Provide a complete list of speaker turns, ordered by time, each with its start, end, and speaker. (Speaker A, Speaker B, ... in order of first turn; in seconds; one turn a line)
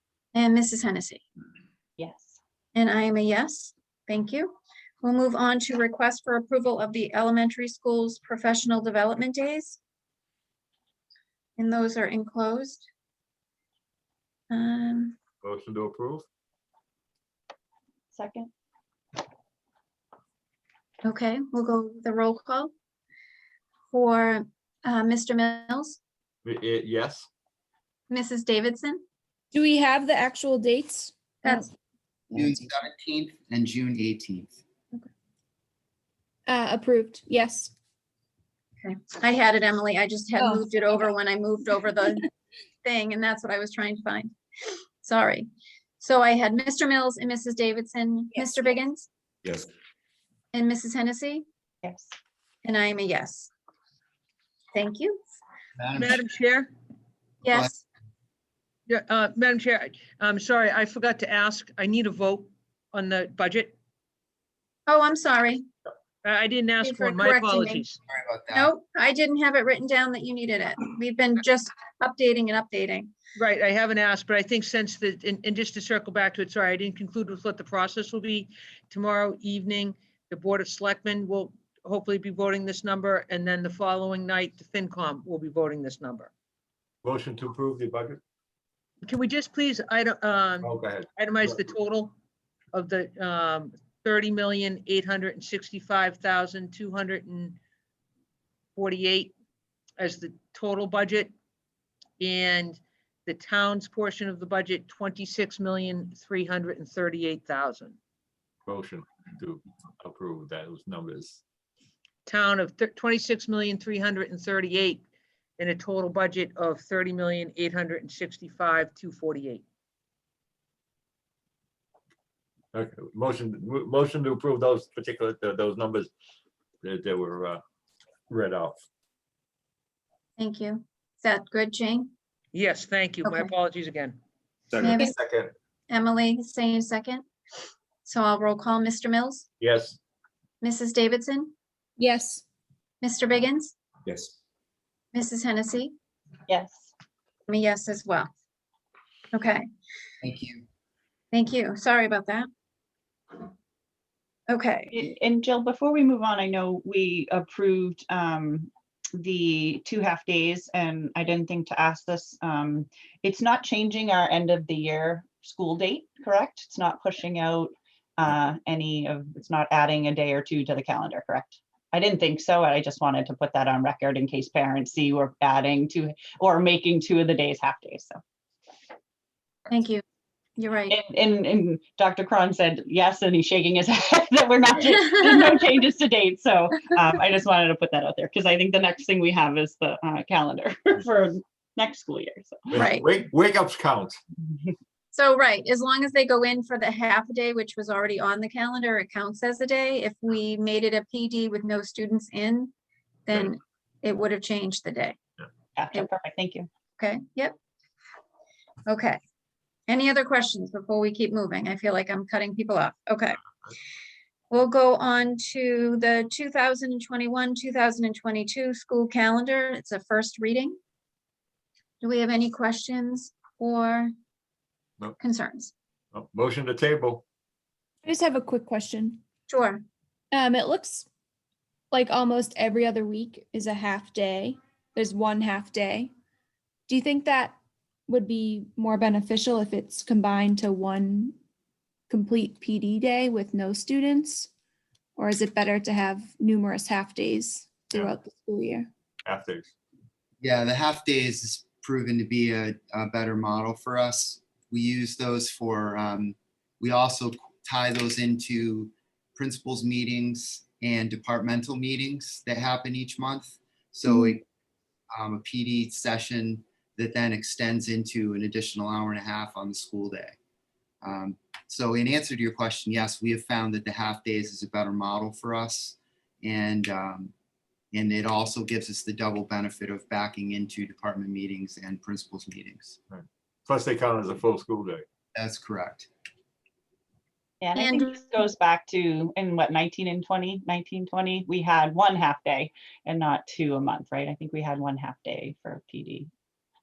Speaker A: 0.3-1.2
Speaker B: 2.0-2.4
Speaker A: 2.8-9.8
Speaker A: 11.6-12.9
Speaker A: 14.5-15.2
Speaker C: 15.4-16.2
Speaker B: 18.1-18.5
Speaker A: 21.0-22.7
Speaker A: 23.9-26.0
Speaker C: 26.4-27.3
Speaker A: 28.1-29.0
Speaker D: 29.5-31.7
Speaker E: 32.3-34.6
Speaker D: 36.5-37.7
Speaker A: 38.8-42.3
Speaker D: 40.4-40.6
Speaker A: 42.8-44.3
Speaker A: 45.0-45.5
Speaker A: 46.0-49.1
Speaker A: 50.5-51.4
Speaker B: 51.8-52.1
Speaker A: 52.6-53.5
Speaker A: 54.7-55.2
Speaker E: 55.8-56.2
Speaker F: 56.0-56.7
Speaker A: 57.4-57.8
Speaker F: 58.9-63.7
Speaker A: 64.9-65.7
Speaker F: 66.2-68.0
Speaker A: 66.8-67.8
Speaker E: 68.1-68.7
Speaker A: 68.5-73.1
Speaker F: 73.4-86.3
Speaker C: 87.0-88.2
Speaker F: 89.0-92.1
Speaker C: 90.6-91.6
Speaker F: 92.7-97.6
Speaker F: 98.8-99.3
Speaker F: 100.0-101.3
Speaker F: 102.2-108.0
Speaker C: 108.7-111.4
Speaker F: 112.3-115.0
Speaker F: 115.6-119.6
Speaker C: 122.7-126.1
Speaker C: 126.8-127.6
Speaker C: 128.3-128.8
Speaker A: 130.4-132.1
Speaker F: 132.5-134.2
Speaker C: 134.8-135.5
Speaker A: 134.8-135.1
Speaker A: 135.9-137.3
Speaker A: 138.1-139.5
Speaker C: 139.6-140.0
Speaker A: 140.6-141.5
Speaker D: 142.0-142.4
Speaker A: 143.0-143.8
Speaker A: 145.1-145.9
Speaker B: 146.5-146.9
Speaker A: 147.5-148.3
Speaker A: 149.3-149.6
Speaker E: 150.2-150.7
Speaker A: 151.3-152.5
Speaker A: 154.5-154.9
Speaker B: 154.9-178.2
Speaker A: 179.7-180.0
Speaker A: 180.6-181.0
Speaker B: 180.9-192.9
Speaker C: 192.7-194.2
Speaker A: 192.7-193.1
Speaker A: 195.1-202.7
Speaker A: 203.3-205.2
Speaker B: 205.8-206.7
Speaker A: 207.0-207.6
Speaker A: 208.9-209.2
Speaker A: 209.9-213.4
Speaker A: 214.5-220.8
Speaker A: 222.0-224.1
Speaker A: 225.2-225.7
Speaker C: 226.1-227.2
Speaker D: 228.1-229.2
Speaker A: 229.5-229.8
Speaker D: 230.3-231.1
Speaker D: 231.9-236.1
Speaker D: 236.9-237.6
Speaker D: 238.1-241.3
Speaker D: 242.1-244.5
Speaker D: 245.2-248.9
Speaker C: 249.2-249.7
Speaker E: 250.4-264.4
Speaker E: 265.1-270.4
Speaker E: 271.0-277.3
Speaker E: 277.9-283.0
Speaker C: 283.1-285.1
Speaker E: 285.4-286.1
Speaker B: 287.6-296.3
Speaker A: 287.8-288.2